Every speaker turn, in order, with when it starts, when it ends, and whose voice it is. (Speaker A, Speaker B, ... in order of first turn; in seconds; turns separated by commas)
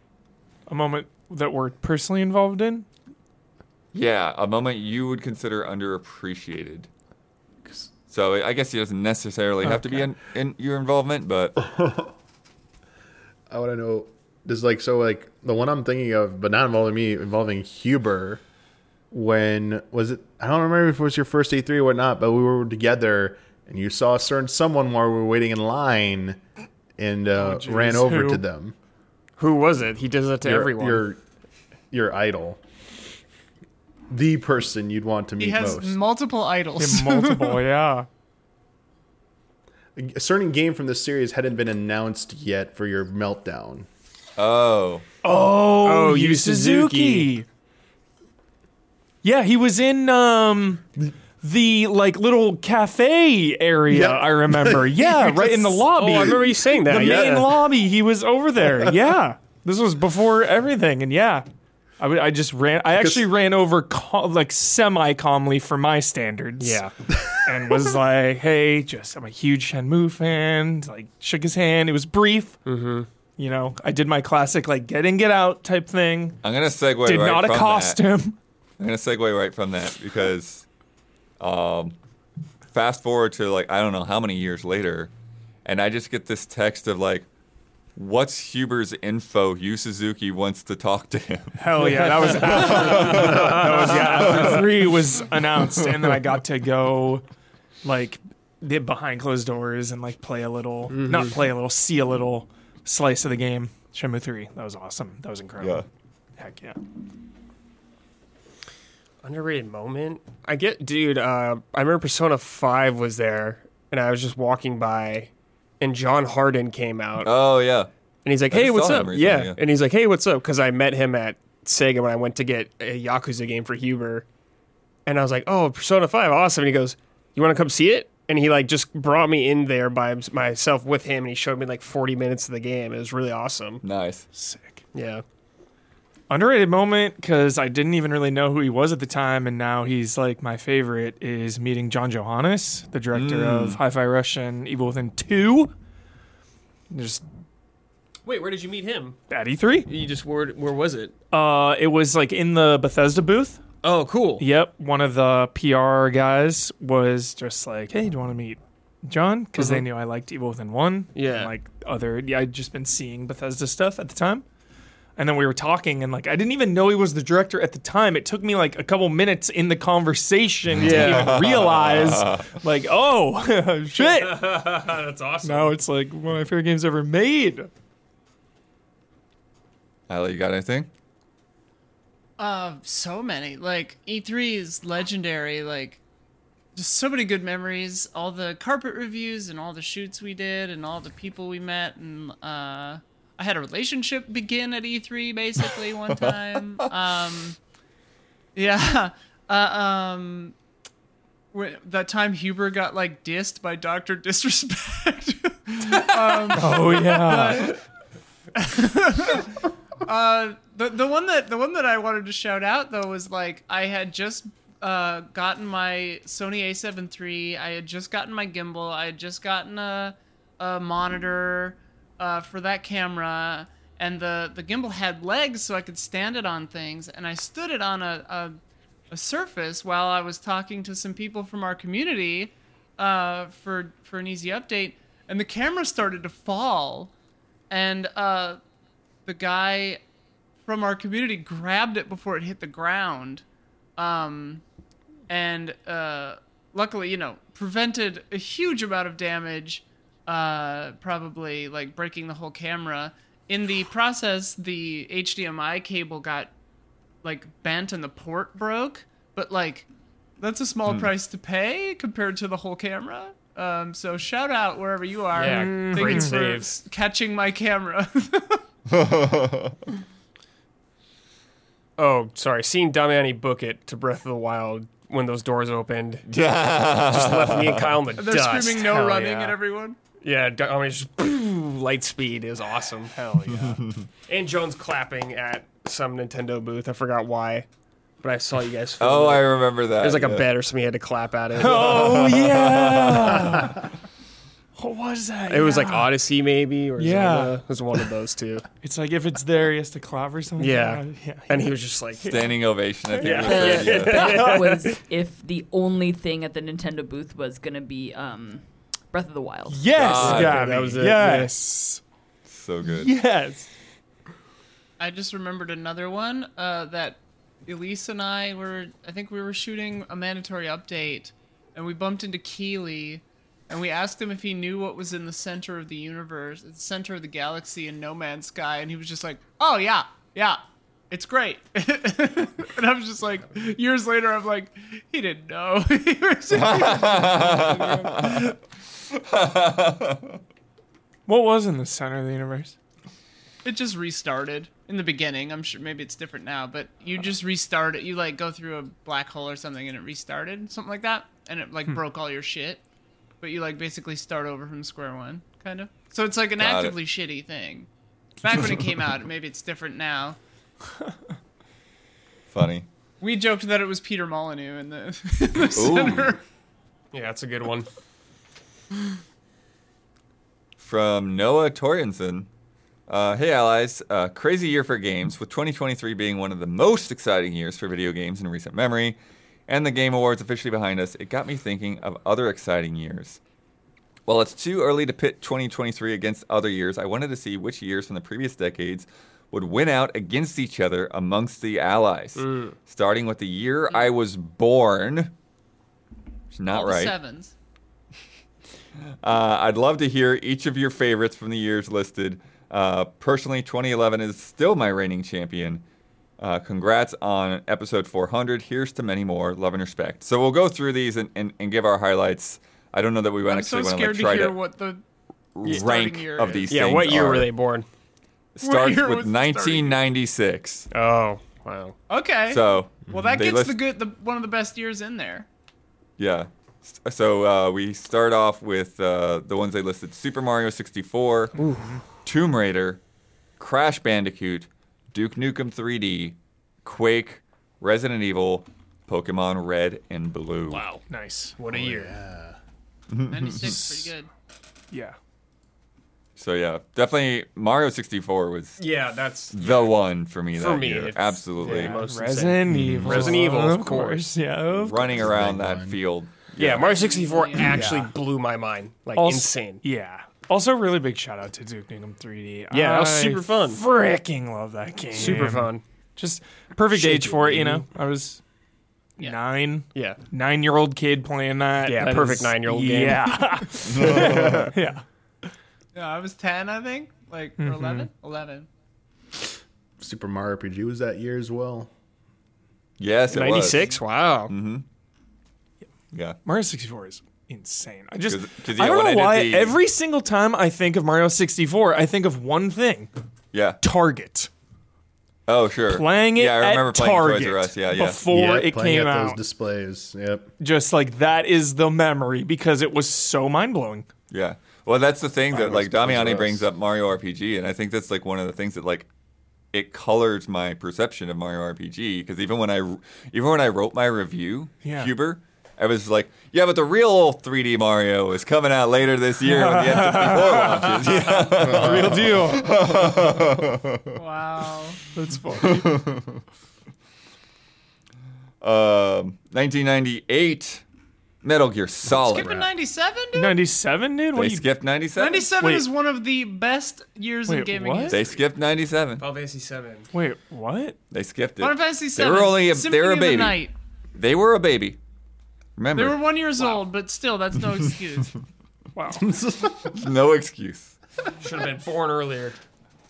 Speaker A: 0.7-2.9, Speaker B: 3.9-6.9, Speaker B: 8.1-11.6, Speaker A: 9.6-10.1, Speaker C: 11.6-12.1, Speaker C: 13.5-18.4, Speaker C: 19.1-26.4, Speaker C: 27.0-28.8, Speaker A: 27.4-28.4, Speaker D: 29.4-31.1, Speaker C: 30.4-31.2, Speaker C: 31.9-32.6, Speaker C: 34.1-36.0, Speaker E: 35.4-37.6, Speaker A: 36.8-38.1, Speaker C: 40.0-43.9, Speaker B: 44.4-45.1, Speaker A: 45.2-47.5, Speaker D: 45.8-47.4, Speaker A: 49.2-50.9, Speaker A: 51.4-61.5, Speaker C: 53.9-55.7, Speaker D: 55.9-57.6, Speaker C: 56.9-57.5, Speaker A: 62.0-66.8, Speaker C: 63.0-63.2, Speaker D: 66.6-66.9, Speaker C: 67.1-67.8, Speaker A: 67.5-72.6, Speaker D: 72.7-73.1, Speaker A: 73.4-76.4, Speaker B: 76.4-78.0, Speaker A: 77.0-78.4, Speaker B: 78.8-80.7, Speaker B: 81.4-82.0, Speaker B: 82.7-85.1, Speaker B: 85.6-87.3, Speaker B: 88.0-94.8, Speaker A: 91.6-97.2, Speaker D: 92.6-94.4, Speaker A: 97.8-105.8, Speaker D: 100.9-101.4, Speaker A: 106.4-106.8, Speaker D: 109.2-117.3, Speaker B: 117.2-117.9, Speaker D: 118.2-124.3, Speaker B: 118.5-119.6, Speaker D: 125.1-133.8, Speaker B: 133.8-134.3, Speaker A: 134.3-134.8, Speaker D: 134.9-135.2, Speaker A: 136.3-145.7, Speaker B: 143.1-143.8, Speaker A: 146.9-147.2, Speaker D: 148.2-149.2, Speaker A: 149.3-149.9, Speaker D: 149.9-151.2, Speaker A: 151.3-153.6, Speaker D: 153.8-154.5, Speaker A: 154.4-164.4, Speaker D: 159.6-159.8, Speaker D: 161.1-161.5, Speaker A: 165.2-174.7, Speaker D: 170.8-171.4, Speaker B: 170.8-172.6, Speaker D: 174.0-175.8, Speaker A: 175.4-177.7, Speaker B: 180.1-180.9, Speaker E: 182.4-186.0, Speaker E: 186.8-197.6, Speaker B: 196.2-196.8, Speaker E: 198.6-200.5, Speaker E: 201.5-207.8, Speaker A: 206.5-207.8, Speaker E: 208.6-209.5, Speaker E: 210.0-228.6, Speaker E: 229.1-237.1, Speaker E: 237.7-238.6, Speaker E: 239.3-240.0, Speaker E: 240.6-243.4, Speaker E: 244.0-244.6, Speaker E: 245.3-256.5, Speaker E: 257.2-259.9, Speaker E: 260.4-268.6, Speaker D: 265.3-266.8, Speaker A: 265.5-266.4, Speaker B: 268.9-269.8, Speaker D: 272.0-276.3, Speaker B: 276.3-278.0, Speaker D: 277.0-279.6, Speaker E: 278.2-280.0, Speaker D: 280.2-283.1, Speaker A: 283.1-283.8, Speaker B: 283.5-284.0, Speaker D: 284.3-287.7, Speaker D: 288.2-292.2, Speaker B: 289.0-290.5, Speaker A: 291.6-293.9, Speaker B: 291.8-293.7, Speaker A: 294.8-296.2, Speaker D: 295.5-298.6, Speaker A: 297.0-297.6, Speaker A: 298.8-302.5, Speaker D: 300.6-302.5, Speaker B: 302.3-304.3, Speaker A: 303.1-303.5, Speaker D: 303.2-305.0, Speaker F: 303.3-310.4, Speaker A: 304.1-304.6, Speaker A: 309.7-312.0, Speaker B: 309.9-310.6, Speaker D: 310.1-311.5, Speaker B: 312.5-313.1, Speaker A: 312.9-313.7, Speaker E: 315.0-338.6, Speaker B: 336.5-338.6, Speaker B: 339.1-340.4, Speaker A: 341.3-342.8, Speaker E: 343.6-352.8, Speaker E: 353.4-357.9, Speaker B: 356.6-357.0, Speaker E: 358.4-360.4, Speaker B: 362.5-362.9, Speaker E: 363.2-366.4, Speaker B: 365.7-366.4, Speaker D: 367.1-367.9, Speaker B: 370.8-372.5, Speaker B: 373.1-379.2, Speaker B: 379.7-383.4, Speaker B: 384.3-395.3, Speaker D: 392.4-392.7, Speaker E: 393.9-394.1, Speaker B: 396.5-397.1, Speaker E: 396.7-397.5, Speaker B: 399.2-405.8, Speaker B: 406.4-414.6, Speaker E: 413.5-415.0, Speaker B: 415.6-417.5, Speaker E: 415.6-417.1, Speaker D: 416.7-417.9, Speaker B: 418.6-420.9, Speaker E: 418.6-420.0, Speaker D: 420.9-421.9, Speaker E: 422.1-425.5, Speaker B: 422.5-423.8, Speaker B: 426.2-431.5, Speaker D: 431.6-432.0, Speaker B: 432.2-433.0, Speaker B: 433.6-440.9, Speaker A: 440.9-441.6, Speaker D: 441.6-442.1, Speaker C: 441.7-442.6, Speaker B: 443.1-443.8, Speaker E: 443.3-444.3, Speaker A: 443.6-444.1, Speaker A: 444.9-445.2, Speaker B: 446.4-448.9, Speaker D: 448.8-449.9, Speaker B: 449.5-452.0, Speaker D: 450.5-454.3, Speaker A: 451.6-455.1, Speaker B: 452.7-453.3, Speaker B: 454.7-456.9, Speaker C: 455.1-456.0, Speaker D: 456.6-459.8, Speaker E: 456.7-457.9, Speaker C: 457.7-458.1, Speaker A: 459.1-468.4, Speaker D: 462.7-463.8, Speaker D: 465.1-465.8, Speaker D: 466.9-467.9, Speaker A: 469.2-475.0, Speaker D: 469.9-470.2, Speaker D: 471.9-473.6, Speaker B: 473.9-474.7, Speaker E: 475.9-478.7, Speaker A: 477.6-478.1, Speaker C: 480.0-481.9, Speaker B: 483.0-484.0, Speaker D: 483.3-484.5, Speaker B: 484.5-484.9, Speaker B: 486.1-486.4, Speaker A: 486.4-493.1, Speaker B: 488.3-489.8, Speaker B: 493.5-493.8, Speaker A: 493.8-494.5, Speaker B: 495.5-498.2, Speaker A: 495.9-499.4, Speaker C: 498.3-500.5, Speaker A: 500.6-504.1, Speaker B: 504.3-509.1, Speaker C: 505.5-506.7, Speaker B: 509.7-524.2, Speaker A: 514.8-515.1, Speaker A: 519.4-522.9, Speaker E: 524.1-525.0, Speaker A: 525.1-525.9, Speaker B: 525.6-526.4, Speaker B: 528.6-530.8, Speaker B: 531.4-532.7, Speaker E: 532.1-533.6, Speaker A: 533.4-534.7, Speaker B: 534.3-535.5, Speaker E: 535.2-538.4, Speaker A: 535.6-535.9, Speaker A: 537.5-538.2, Speaker B: 538.1-539.2, Speaker D: 539.2-540.1, Speaker A: 540.1-541.0, Speaker B: 541.1-545.0, Speaker E: 541.6-543.7, Speaker B: 545.8-546.3, Speaker E: 545.9-548.4, Speaker A: 549.0-549.3, Speaker C: 549.2-550.1, Speaker B: 549.8-551.0, Speaker D: 551.4-552.6